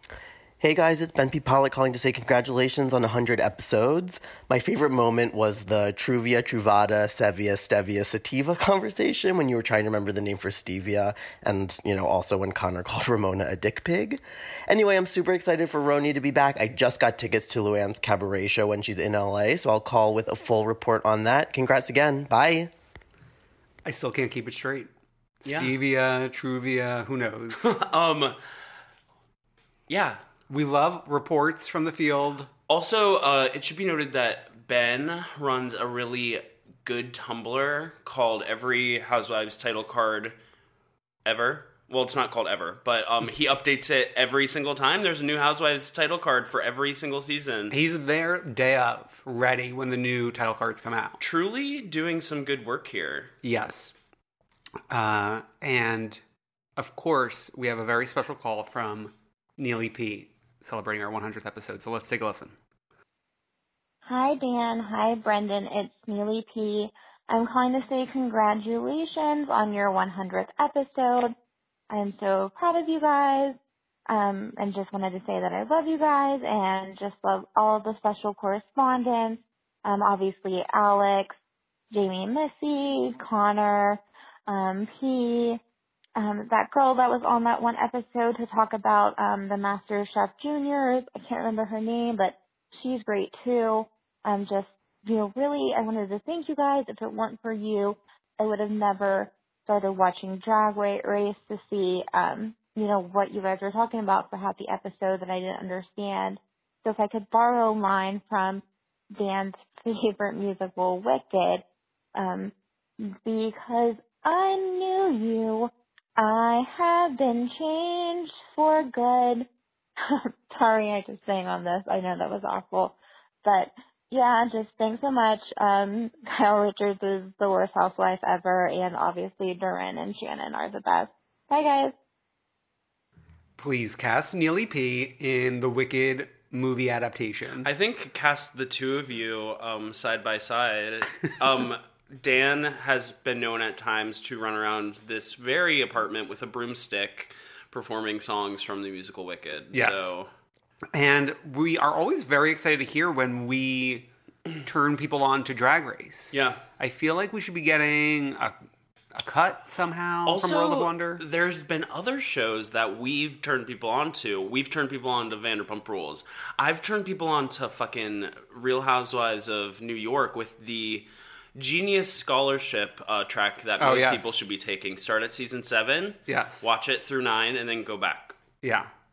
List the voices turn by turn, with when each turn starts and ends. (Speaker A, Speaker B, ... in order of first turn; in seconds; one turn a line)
Speaker A: 0.6-22.7
Speaker B: 23.9-24.9
Speaker B: 25.4-27.7
Speaker C: 25.4-25.7
Speaker C: 27.6-28.4
Speaker C: 29.9-30.2
Speaker B: 30.5-32.5
Speaker C: 32.7-40.4
Speaker C: 41.2-47.7
Speaker B: 47.7-51.2
Speaker C: 51.2-53.3
Speaker B: 53.4-53.9
Speaker B: 54.9-56.2
Speaker B: 56.8-62.5
Speaker D: 64.0-71.3
Speaker D: 71.9-73.6
Speaker D: 74.1-81.3
Speaker D: 81.9-85.6
Speaker D: 86.2-108.6
Speaker D: 109.2-111.6
Speaker D: 112.2-119.5
Speaker D: 120.0-131.9
Speaker B: 133.6-137.7
Speaker C: 137.6-150.3
Speaker B: 149.7-150.1
Speaker B: 150.9-154.1
Speaker B: 154.6-158.5
Speaker C: 156.3-156.6
Speaker B: 159.1-161.2
Speaker C: 160.3-178.3
Speaker B: 173.8-174.3
Speaker B: 176.3-176.7
Speaker B: 178.6-178.9